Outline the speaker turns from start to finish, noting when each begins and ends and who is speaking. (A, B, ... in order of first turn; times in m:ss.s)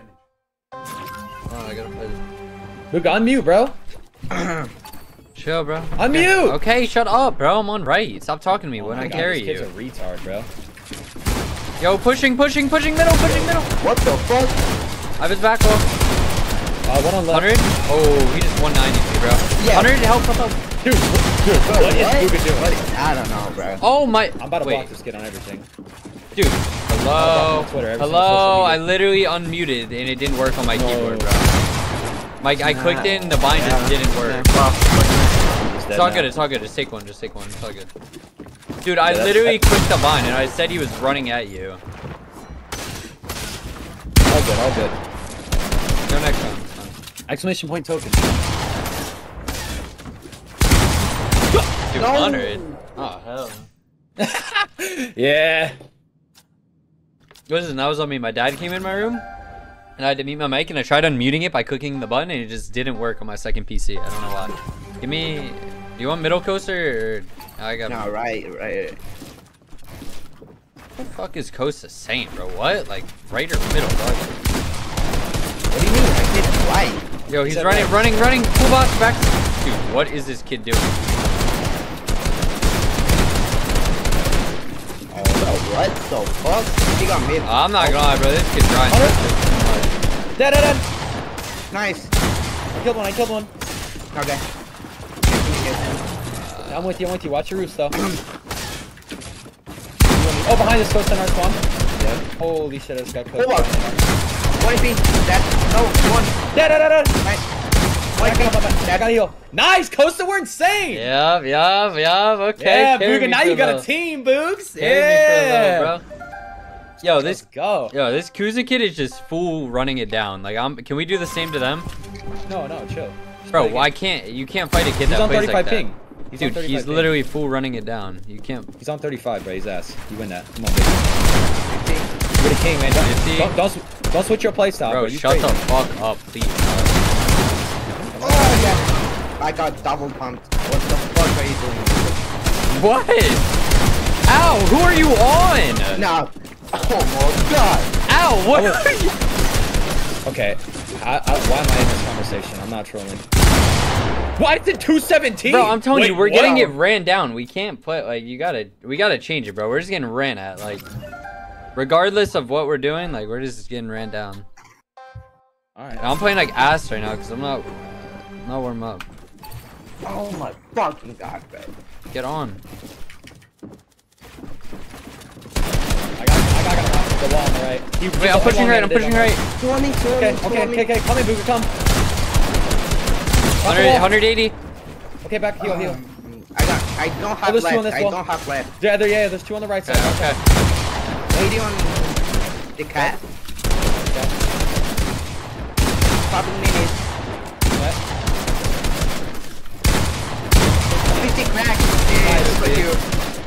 0:01.5-0:02.2 A
0:02.9-0:03.8 B
0:04.3-0:04.7 C
0:05.3-0:09.7 A
0:06.0-0:06.6 B
0:08.8-0:10.5 B
0:09.0-0:09.2 C
0:11.8-0:13.7 A
0:13.2-0:14.6 C
0:15.2-0:15.8 A
0:16.8-0:17.5 B
0:17.3-0:20.6 A
0:19.6-0:19.9 C
0:20.8-0:22.8 B
0:21.6-0:23.8 C
0:23.8-0:24.9 A
0:24.4-0:25.7 B
0:26.3-0:31.5 A
0:27.1-0:28.8 B
0:30.7-0:31.3 B
0:32.4-0:34.5 A
0:32.6-0:35.4 C
0:35.6-0:36.3 B
0:35.9-0:37.9 A
0:38.8-0:41.8 A
0:39.0-0:39.6 B
0:44.3-0:45.0 B
0:46.1-0:46.9 A
0:47.3-0:48.4 B
0:51.9-0:53.7 A
0:51.9-0:52.8 C
0:54.2-0:55.8 B
0:57.5-0:59.2 A
1:00.0-1:08.2 A
1:07.9-1:09.0 C
1:11.0-1:14.3 A
1:15.7-1:17.0 C
1:17.3-1:20.9 A
1:17.4-1:18.3 B
1:25.1-1:27.5 C
1:27.4-1:29.9 A
1:27.8-1:28.0 B
1:28.9-1:29.2 B
1:30.4-1:30.8 B
1:31.7-1:32.1 C
1:32.7-1:33.5 B
1:34.1-1:34.4 C
1:35.3-1:36.0 C
1:36.4-1:37.0 A
1:36.7-1:38.0 B
1:37.9-1:38.2 C
1:40.1-1:40.7 C
1:40.4-1:41.6 B
1:42.2-1:44.0 B
1:43.3-1:43.7 C
1:44.6-1:46.4 C
1:46.5-1:47.2 B
1:47.2-1:47.5 C
1:48.2-1:49.1 C
1:48.2-1:51.1 B
1:50.9-1:53.8 A
1:52.6-1:55.9 B
1:54.8-1:56.0 A
1:57.0-2:01.9 A
1:57.1-1:57.9 B
2:02.5-2:03.9 B
2:03.5-2:08.7 A
2:05.0-2:07.2 B
2:08.8-2:11.1 B
2:11.7-2:12.1 C
2:12.4-2:15.6 B
2:13.0-2:13.5 A
2:14.8-2:17.7 A
2:17.9-2:18.8 B
2:18.2-2:22.2 C
2:22.7-2:23.4 A
2:24.3-2:26.1 A
2:25.9-2:27.9 C
2:28.1-2:29.1 A
2:28.5-2:28.8 B
2:30.2-2:33.2 B
2:34.4-2:36.7 B
2:35.4-2:40.8 A
2:41.8-2:44.4 A
2:45.8-2:46.4 B
2:46.0-2:49.0 A
2:50.0-2:51.7 C
2:52.1-2:52.6 A
2:56.2-2:59.4 B
2:58.2-2:59.4 A
2:59.6-3:00.9 C
3:00.1-3:01.7 B
3:03.6-3:04.1 B
3:03.6-3:04.5 A
3:05.2-3:06.0 B
3:05.6-3:08.7 C
3:07.4-3:08.2 B
3:08.8-3:10.4 B
3:09.8-3:10.4 A
3:11.3-3:13.2 C
3:14.0-3:14.3 B
3:16.2-3:17.1 C
3:17.7-3:18.0 B
3:20.9-3:21.5 B
3:21.1-3:23.0 C
3:22.2-3:22.9 B
3:22.4-3:22.8 A